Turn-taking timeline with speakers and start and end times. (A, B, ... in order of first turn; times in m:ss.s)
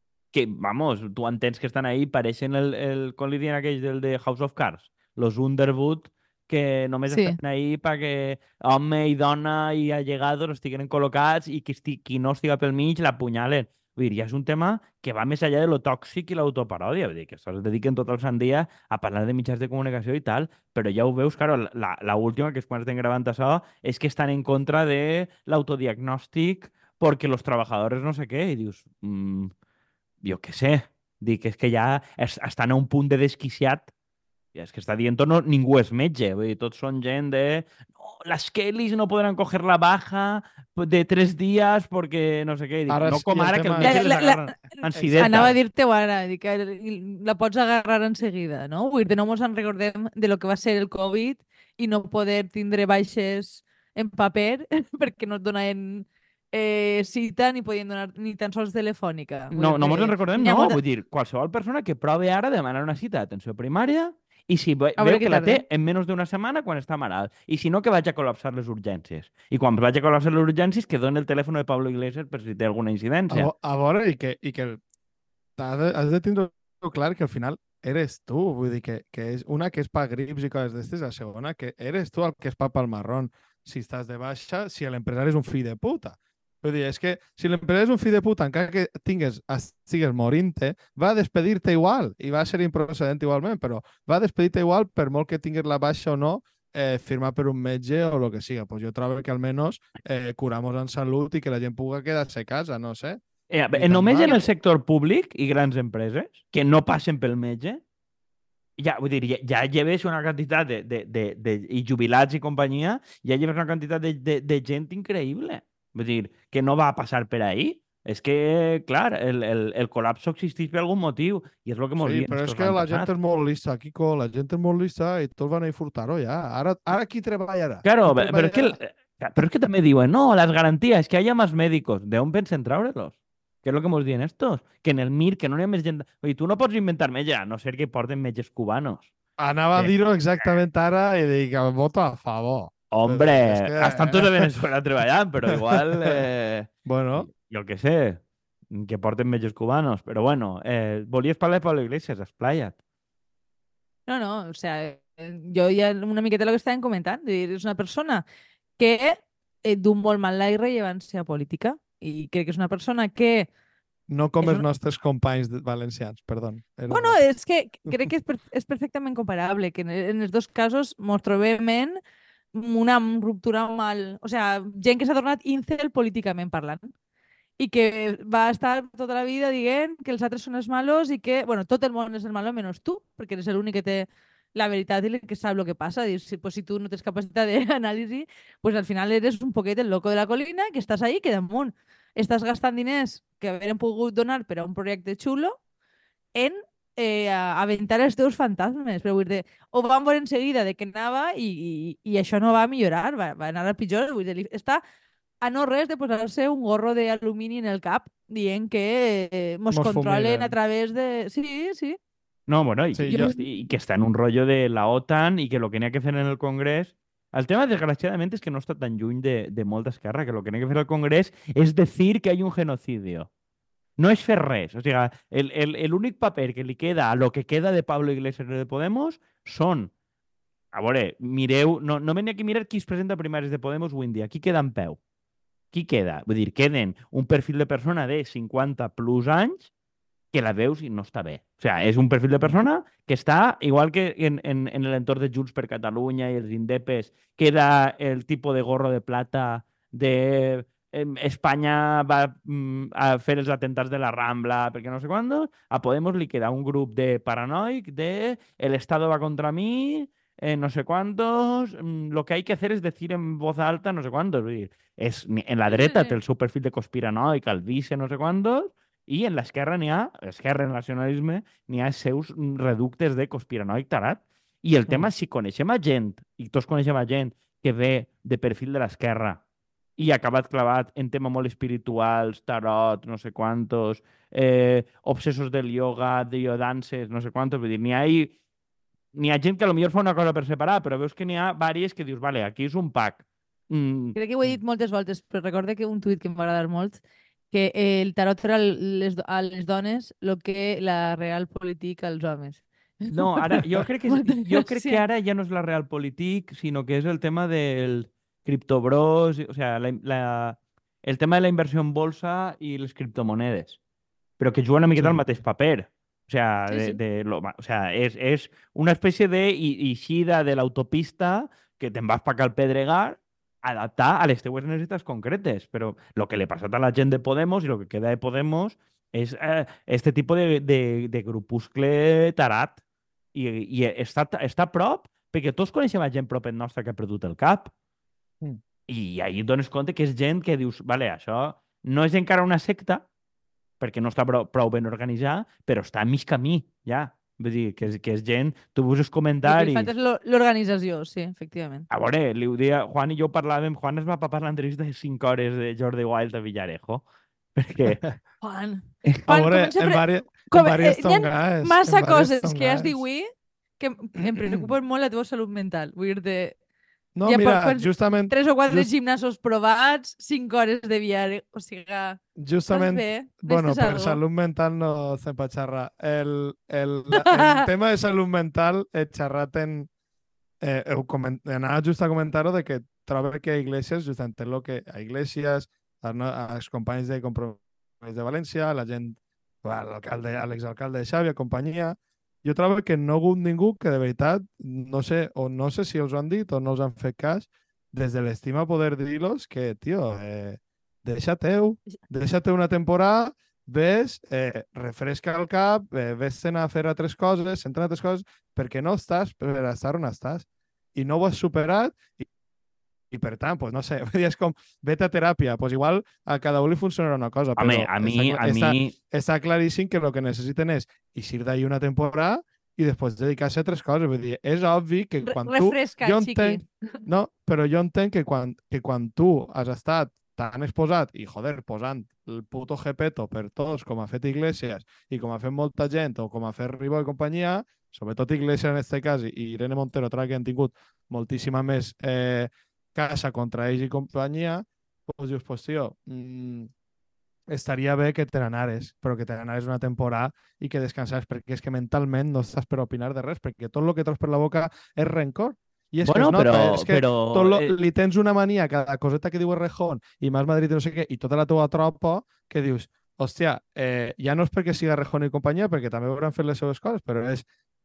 0:00.3-0:29.5 A
0:07.1-0:07.4 B
0:30.2-0:33.9 A
0:34.6-0:45.5 A
0:42.9-0:44.0 C
0:43.8-1:00.8 B
0:45.0-0:45.5 C
0:59.5-1:13.5 A
1:05.0-1:05.6 B
1:13.3-1:14.8 C
1:15.6-1:44.5 C
1:43.5-1:47.8 A
1:48.8-2:03.1 A
2:02.0-2:08.8 C
2:07.8-2:19.1 A
2:19.4-2:24.5 C
2:22.9-2:28.2 A
2:25.5-2:26.2 C
2:26.9-2:27.3 C
2:28.7-2:32.8 A
2:34.1-2:38.2 B
2:38.8-2:43.5 B
2:44.1-2:47.2 C
2:46.9-2:52.0 B
2:52.5-2:56.9 B
2:57.6-3:15.6 B
3:16.4-3:24.8 B
3:25.4-3:32.0 B
3:29.7-3:30.5 C
3:32.5-3:43.3 A
3:33.0-3:33.3 C
3:33.1-3:33.4 B
3:44.0-3:49.9 A
3:50.7-3:55.0 A
3:55.7-3:59.7 A
4:00.3-4:39.4 A
4:25.7-4:26.2 B
4:40.0-4:48.4 A
4:49.1-4:54.2 A
4:54.2-5:05.0 B
5:03.1-5:13.8 A
5:14.4-5:32.8 A
5:15.0-5:15.2 C
5:16.7-5:17.0 B
5:33.3-5:37.7 A
5:38.9-5:43.0 A
5:43.8-5:49.9 A
5:49.4-5:51.9 B
5:51.9-5:57.0 A
5:57.6-5:58.0 A
5:58.4-6:03.3 B
5:59.3-6:03.0 C
6:03.8-6:06.6 B
6:04.2-6:04.7 C
6:07.2-6:08.9 C
6:07.2-6:14.2 B
6:12.4-6:19.9 C
6:17.1-6:17.7 B
6:20.6-6:52.3 C
6:53.1-7:26.7 C
6:57.6-6:59.0 A
7:05.2-7:06.7 B
7:27.5-7:47.4 C
7:36.1-7:37.7 A